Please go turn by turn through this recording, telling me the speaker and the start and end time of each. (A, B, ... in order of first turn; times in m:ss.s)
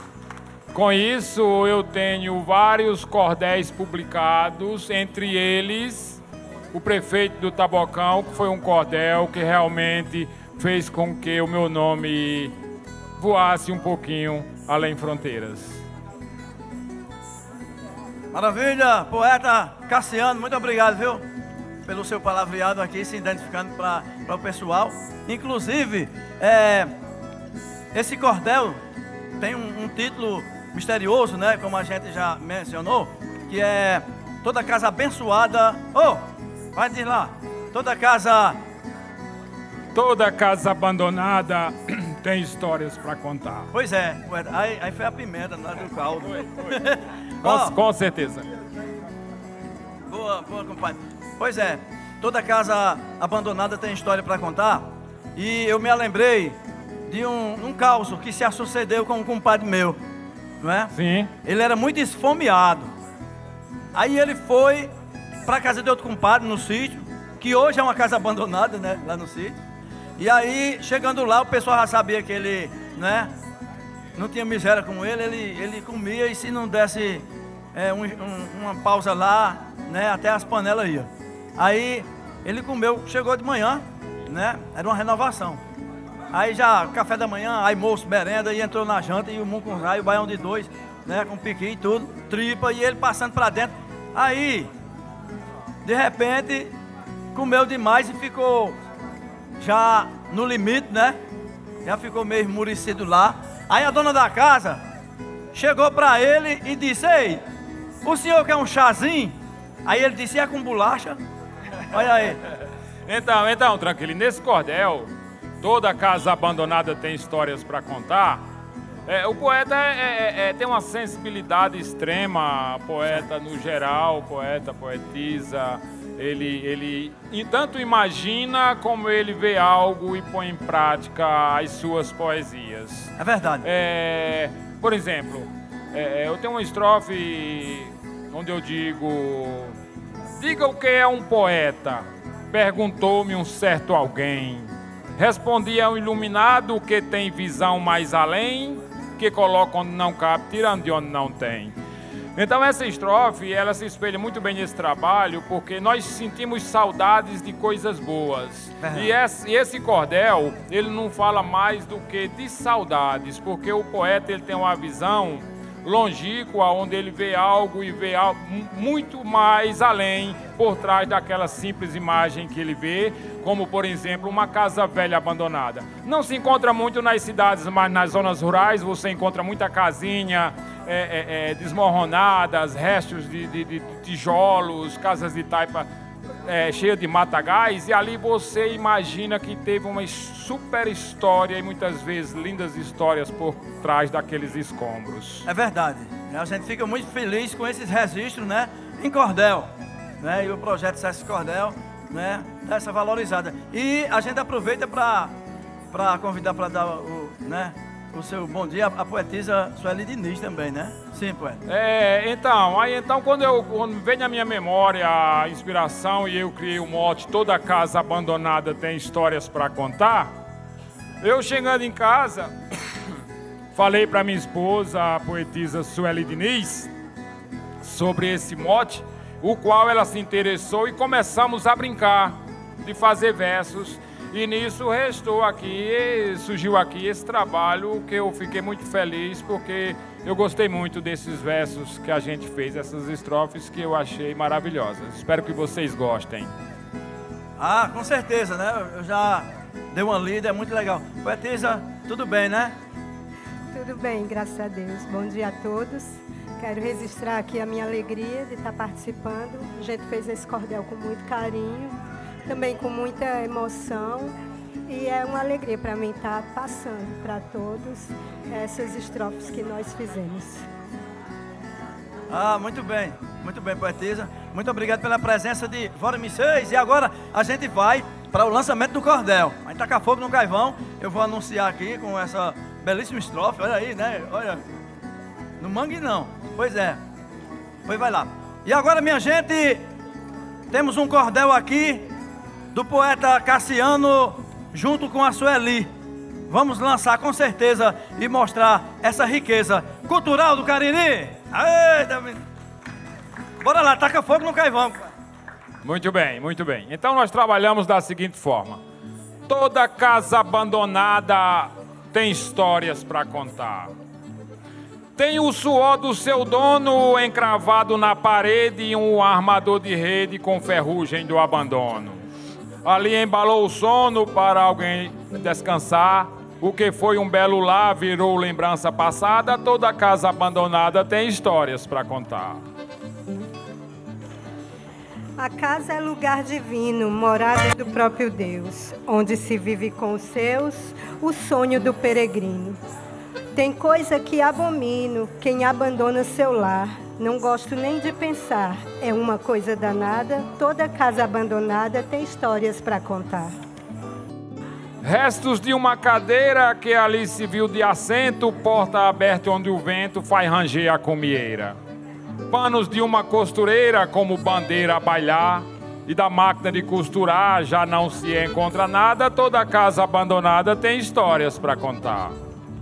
0:00.7-0:06.2 A
0:06.7-0:12.5 A
0:13.2-0:15.8 A
0:18.3-0:21.2 B
0:21.8-0:26.9 B
0:27.9-0:28.8 B
0:29.4-0:36.2 B
0:36.7-0:38.6 B
0:39.9-0:43.7 A
0:43.7-0:47.7 B
0:47.4-0:48.5 A
0:50.1-0:56.6 B
0:57.1-1:00.0 B
1:00.6-1:00.9 B
1:00.9-1:01.3 A
1:01.4-1:02.9 B
1:03.9-1:04.9 B
1:05.4-1:09.6 B
1:10.2-1:13.3 B
1:14.1-1:25.6 B
1:26.3-1:34.7 B
1:35.8-1:36.7 B
1:37.3-1:38.8 B
1:39.6-1:41.2 B
1:41.8-1:44.8 B
1:45.5-1:47.4 B
1:48.0-1:49.3 B
1:49.8-1:51.2 B
1:51.9-1:52.4 B
1:53.1-1:55.1 A
1:55.6-1:58.4 A
1:59.1-2:19.8 A
2:13.2-2:13.7 B
2:20.4-2:31.7 A
2:32.4-3:05.9 A
2:38.8-2:39.1 B
3:06.4-3:15.5 A
3:15.4-3:19.7 B
3:20.2-3:25.3 B
3:25.9-3:31.6 B
3:31.7-3:40.3 A
3:41.2-3:42.5 A
3:43.7-3:46.9 A
3:47.8-4:06.5 A
4:07.6-4:12.7 B
4:13.7-4:24.3 C
4:24.9-4:30.7 C
4:32.3-4:44.6 B
4:45.6-4:47.0 B
4:47.8-4:49.8 B
4:50.7-4:52.0 B
4:52.7-4:55.9 B
4:56.5-5:02.4 B
5:03.6-5:05.0 B
5:05.8-5:08.8 A
5:09.5-5:13.9 A
5:15.2-5:22.2 A
5:22.8-5:32.6 A
5:35.4-5:42.8 C
5:43.5-5:53.5 C
5:55.0-6:01.8 A
6:02.5-6:12.3 A